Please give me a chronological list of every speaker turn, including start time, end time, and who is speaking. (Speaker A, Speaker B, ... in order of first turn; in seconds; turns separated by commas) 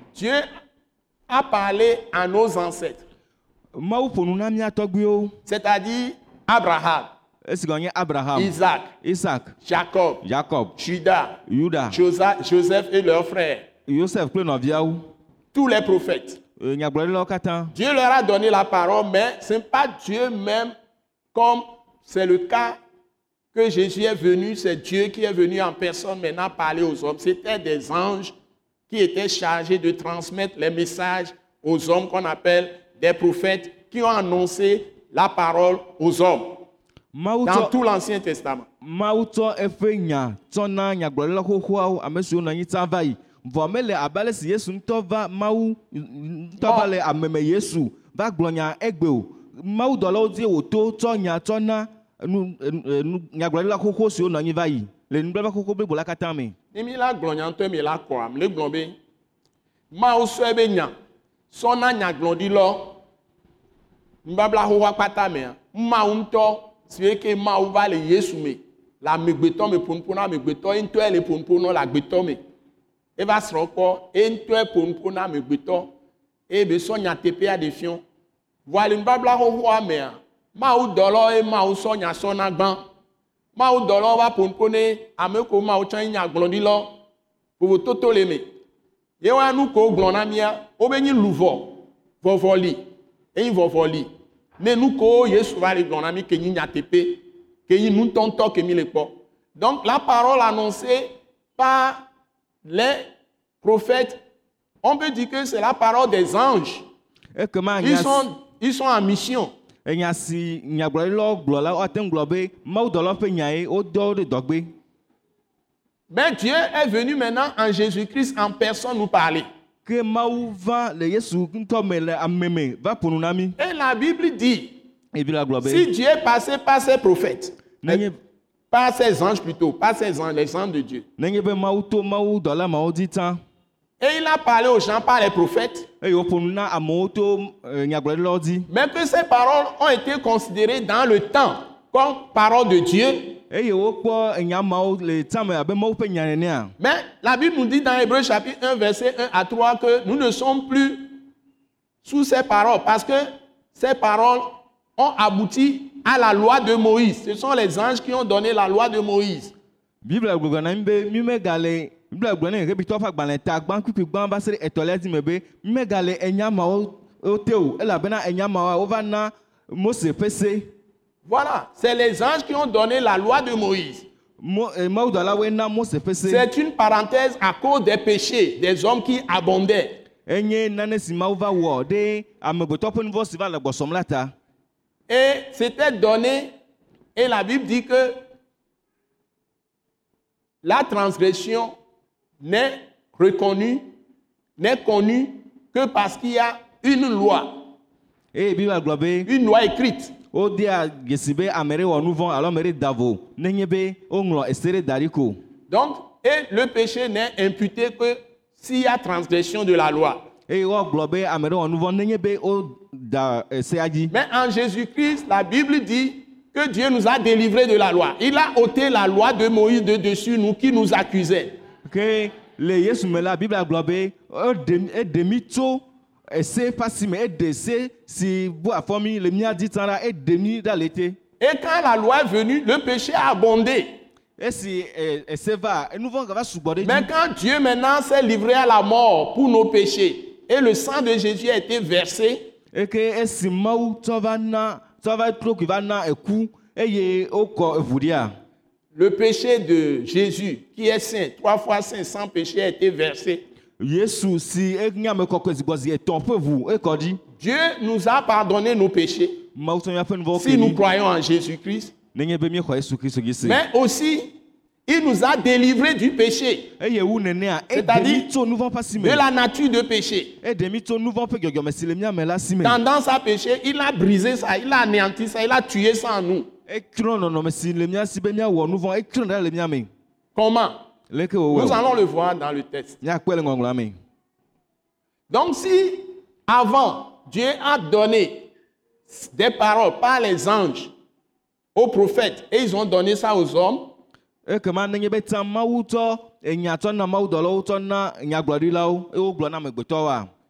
Speaker A: 0.1-0.5, Speaker A: 1.3-3.0, Speaker B: 3.7-5.3, Speaker A: 5.5-7.1, Speaker B: 7.4-9.5, Speaker A: 8.3-8.9, Speaker A: 9.6-10.2, Speaker B: 10.2-10.7, Speaker A: 10.8-13.7, Speaker B: 11.5-12.0, Speaker B: 13.9-15.1, Speaker A: 15.5-16.4, Speaker B: 16.6-17.7, Speaker A: 17.7-20.7, Speaker A: 21.3-22.8, Speaker A: 23.5-28.3, Speaker A: 28.9-36.7, Speaker B: 37.1-37.7, Speaker A: 37.4-38.7, Speaker B: 38.8-56.5, Speaker A: 46.6-46.9, Speaker A: 56.7-58.9, Speaker A: 59.9-60.9, Speaker A: 61.5-63.0, Speaker A: 64.2-72.4, Speaker A: 73.2-75.9, Speaker A: 76.5-78.0, Speaker A: 78.7-82.8, Speaker A: 83.5-87.0, Speaker A: 87.6-88.5, Speaker A: 89.2-92.8, Speaker A: 93.3-102.1, Speaker A: 102.6-103.1, Speaker A: 103.6-104.2, Speaker A: 104.8-106.8, Speaker B: 107.3-108.2, Speaker A: 107.8-109.5, Speaker B: 109.8-114.7, Speaker A: 116.1-119.5, Speaker B: 119.8-123.5, Speaker A: 123.6-124.7, Speaker B: 125.1-125.9, Speaker A: 125.6-128.0, Speaker B: 127.8-128.2, Speaker A: 128.7-131.0, Speaker B: 131.2-133.4, Speaker A: 134.0-135.9, Speaker B: 136.0-138.7, Speaker A: 138.7-143.4, Speaker B: 143.5-146.7, Speaker A: 146.8-151.2, Speaker A: 152.0-159.5, Speaker B: 160.0-170.7, Speaker A: 171.2-174.1, Speaker B: 174.4-176.5, Speaker A: 176.2-180.0, Speaker B: 180.3-184.3, Speaker A: 185.1-186.5, Speaker A: 187.2-188.2, Speaker A: 190.6-191.7, Speaker A: 192.4-193.8, Speaker A: 194.6-197.7, Speaker B: 198.3-199.3, Speaker A: 199.2-200.2, Speaker B: 200.3-205.4, Speaker A: 205.7-210.3, Speaker B: 210.5-214.1, Speaker A: 214.1-221.6, Speaker B: 221.8-231.2, Speaker A: 231.4-233.9, Speaker B: 234.4-237.1, Speaker A: 236.8-242.5, Speaker B: 242.7-248.3, Speaker A: 248.9-253.4, Speaker B: 253.8-257.2, Speaker A: 257.4-259.4, Speaker B: 259.5-260.8, Speaker A: 260.3-261.9, Speaker B: 262.1-263.6, Speaker A: 263.4-264.3, Speaker A: 264.9-266.7, Speaker B: 266.8-269.2, Speaker A: 267.7-268.2, Speaker A: 269.0-270.3, Speaker B: 270.4-272.8, Speaker A: 272.6-276.5, Speaker B: 276.7-279.9, Speaker A: 280.3-280.8, Speaker B: 281.1-281.8, Speaker A: 281.5-283.0, Speaker B: 283.0-283.9, Speaker A: 285.3-288.5, Speaker A: 289.1-290.9, Speaker A: 291.7-293.9, Speaker B: 294.4-300.3